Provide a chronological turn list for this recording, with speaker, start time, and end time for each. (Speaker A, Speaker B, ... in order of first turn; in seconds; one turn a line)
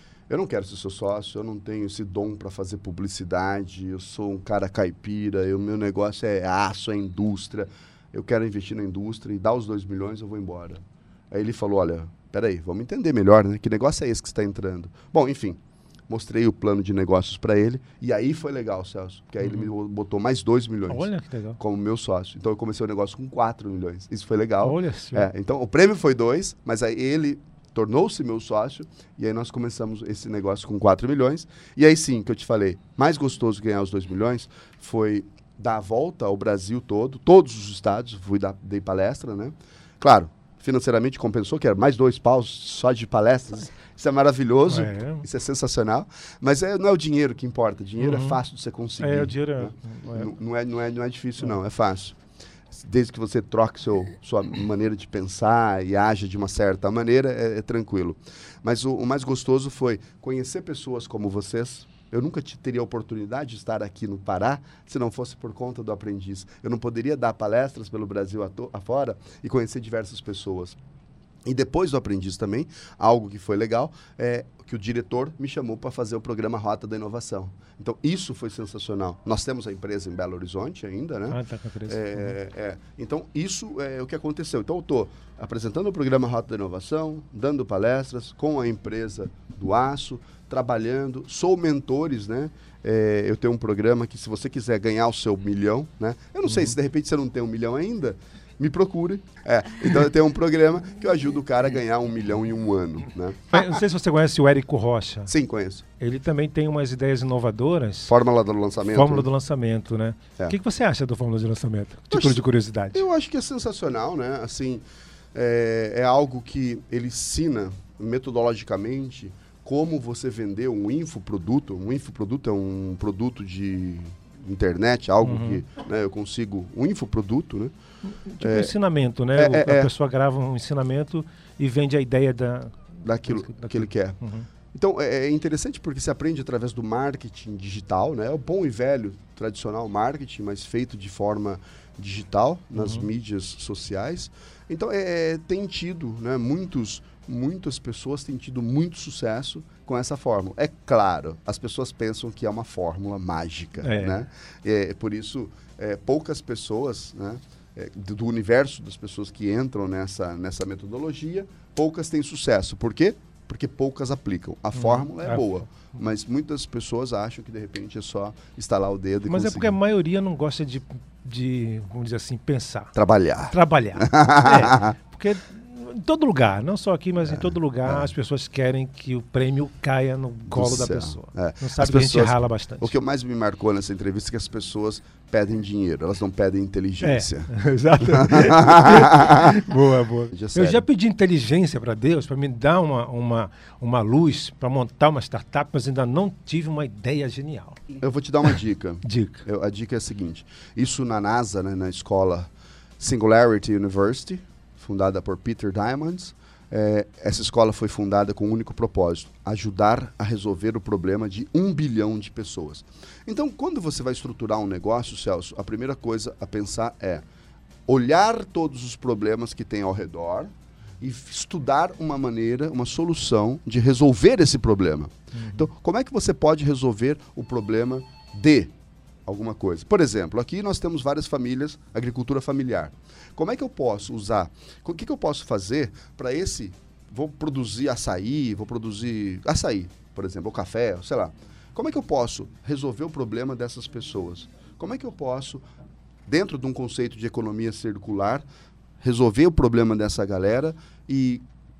Speaker A: 0.3-52.2
Speaker B: 19.4-19.7
Speaker B: 20.9-21.6
Speaker B: 24.6-25.3
Speaker B: 44.7-45.2
Speaker B: 48.0-48.4
Speaker B: 49.0-50.3
Speaker A: 52.7-70.8
Speaker A: 71.5-103.8
Speaker B: 81.3-82.3
Speaker B: 103.5-105.3
Speaker A: 105.3-105.8
Speaker B: 106.0-108.1
Speaker A: 108.1-109.3
Speaker B: 108.9-113.0
Speaker A: 112.1-114.8
Speaker A: 115.3-127.7
Speaker B: 125.2-125.6
Speaker B: 128.1-134.5
Speaker A: 128.4-128.7
Speaker A: 129.3-129.9
Speaker A: 133.0-134.2
Speaker A: 134.7-169.8
Speaker B: 142.8-143.1
Speaker B: 153.8-154.2
Speaker B: 164.8-165.6
Speaker B: 169.3-172.9
Speaker A: 172.9-175.0
Speaker B: 173.5-182.9
Speaker A: 177.2-178.1
Speaker A: 180.5-187.5
Speaker B: 187.0-197.8
Speaker A: 188.0-189.6
Speaker A: 190.3-190.8
Speaker A: 198.0-217.2
Speaker B: 199.0-199.4
Speaker A: 217.9-228.7
Speaker B: 225.3-225.7
Speaker A: 229.2-245.6
Speaker A: 246.3-248.4
Speaker A: 249.0-251.4